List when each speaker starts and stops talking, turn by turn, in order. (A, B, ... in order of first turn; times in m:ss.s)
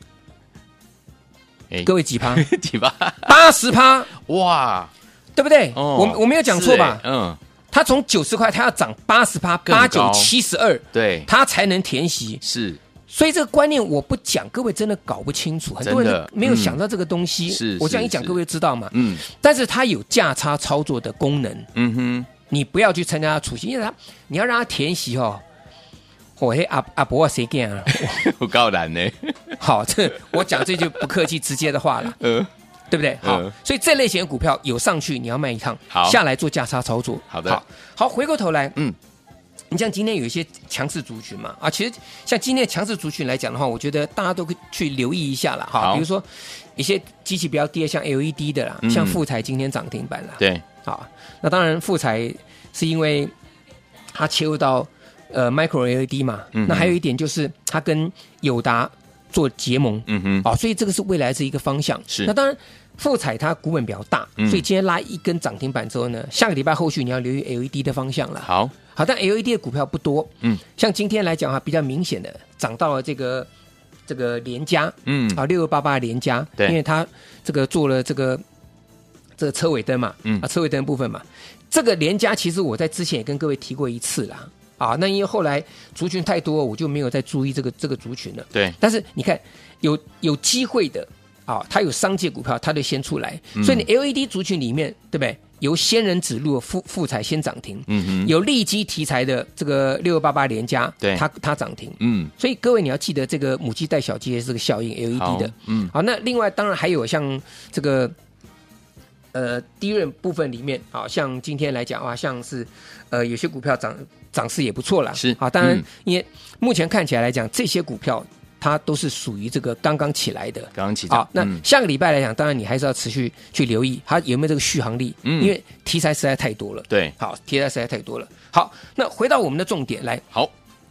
0:01.7-0:03.4 A
0:01.8-0:02.4 B
0:03.2-0:04.1 B
0:04.2-0:04.9 A
0:05.3-0:07.0 B
0:05.7-0:07.4 A
0:07.7-0:12.4 B
0:09.6-0:10.3 A
0:10.9-0:11.3 A
0:12.4-0:12.8 A
0:13.1-0:21.7 B
0:15.8-0:16.8 A
0:17.5-0:18.4 A
0:18.9-0:19.2 A
0:21.7-0:22.3 A
0:22.5-0:25.4 B
0:26.4-0:28.2 B
0:27.9-0:29.6 A
0:29.6-0:32.2 B
0:30.6-0:31.0 A
0:32.2-0:32.5 A
0:32.9-0:38.8 B
0:33.2-0:33.5 A
0:35.9-0:36.2 A
0:37.3-0:37.6 A
0:39.7-0:53.3 B
0:45.8-0:46.0 A
0:48.8-0:49.2 A
0:50.4-0:50.6 A
0:54.1-1:13.5 B
0:56.5-0:56.9 A
1:00.1-1:00.4 A
1:04.4-1:04.6 A
1:08.4-1:08.7 A
1:14.1-1:18.4 B
1:15.0-1:15.4 A
1:19.4-1:48.1 B
1:33.5-1:33.8 A
1:37.9-1:38.3 A
1:42.0-1:42.3 A
1:45.1-1:45.9 A
1:49.3-2:10.2 B
1:55.1-1:55.8 A
2:00.7-2:01.6 A
2:05.2-2:05.5 A